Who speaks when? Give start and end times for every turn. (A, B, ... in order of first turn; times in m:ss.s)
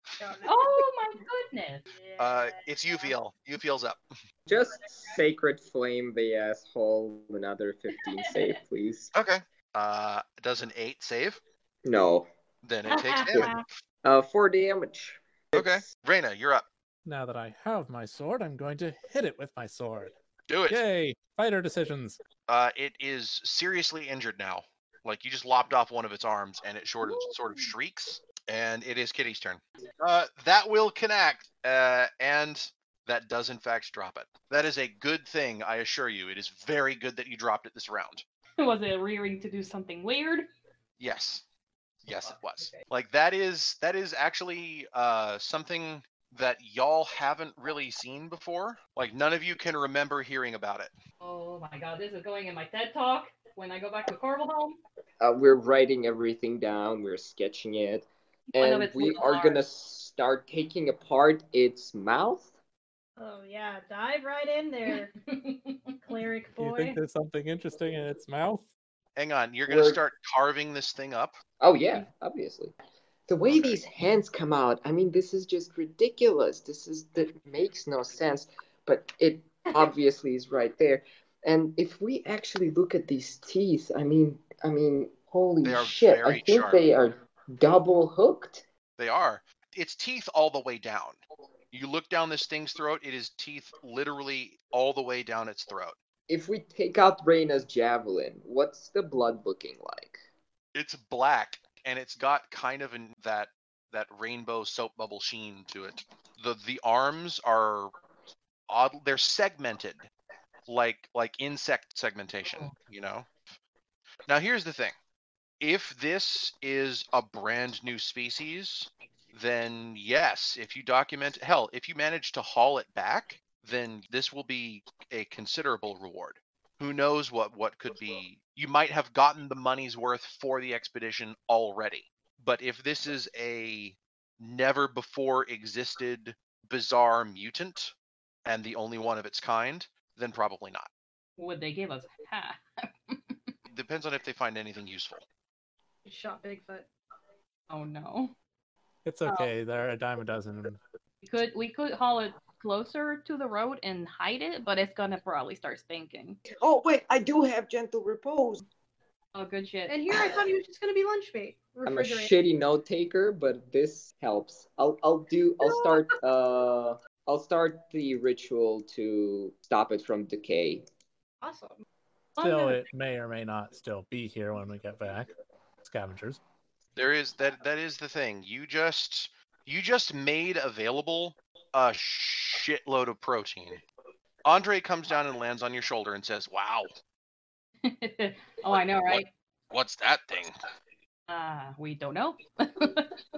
0:00.2-0:00.6 A
0:00.4-0:01.8 B
0:01.9-0:03.1 A
0:02.2-0:04.0 C
0:04.5-0:09.1 D
0:09.1-0:11.4 C
0:11.8-0:12.3 D
0:12.6-0:13.6 C
0:12.9-0:13.6 A
0:14.0-0:15.9 D
0:15.5-0:16.6 C
0:17.0-0:20.1 E
0:20.5-0:20.8 C
0:20.7-0:22.2 E
0:22.5-0:38.2 C
0:38.6-0:40.5 B
0:41.0-0:41.4 C
0:42.0-0:50.9 C
0:42.2-0:42.8 B
0:51.2-0:54.8 B
0:55.2-1:02.5 D
0:58.5-0:59.6 B
1:03.2-1:05.1 A
1:04.9-1:06.1 B
1:06.0-1:07.0 A
1:06.6-1:08.7 E
1:09.2-1:11.4 C
1:09.7-1:10.0 D
1:11.6-1:12.7 D
1:13.3-1:28.6 D
1:13.5-1:13.8 C
1:25.6-1:26.8 C
1:29.0-1:31.2 C
1:31.7-1:36.0 C
1:36.3-1:40.2 D
1:40.7-1:47.9 C
1:48.7-1:50.1 C
1:50.7-1:53.4 C
1:52.5-1:52.7 B
1:54.3-1:54.9 C
1:55.6-2:17.9 C
2:18.4-2:20.9 C
2:21.4-2:23.5 B
2:23.7-2:25.2 C
2:26.0-2:26.9 A
2:27.7-2:28.3 B
2:29.0-2:30.8 E
2:29.2-2:29.5 B
2:31.2-2:36.4 B
2:36.5-2:38.6 D
2:39.3-2:40.0 B
2:39.9-2:42.3 A
2:41.8-2:50.8 D
2:45.7-2:46.0 A
2:51.4-2:51.8 A
2:52.4-2:52.8 B
2:52.4-2:55.3 E
2:55.8-2:56.4 E
2:57.0-3:03.8 C
3:04.4-3:06.9 C
3:07.8-3:09.3 B
3:09.0-3:10.5 C
3:11.3-3:13.2 B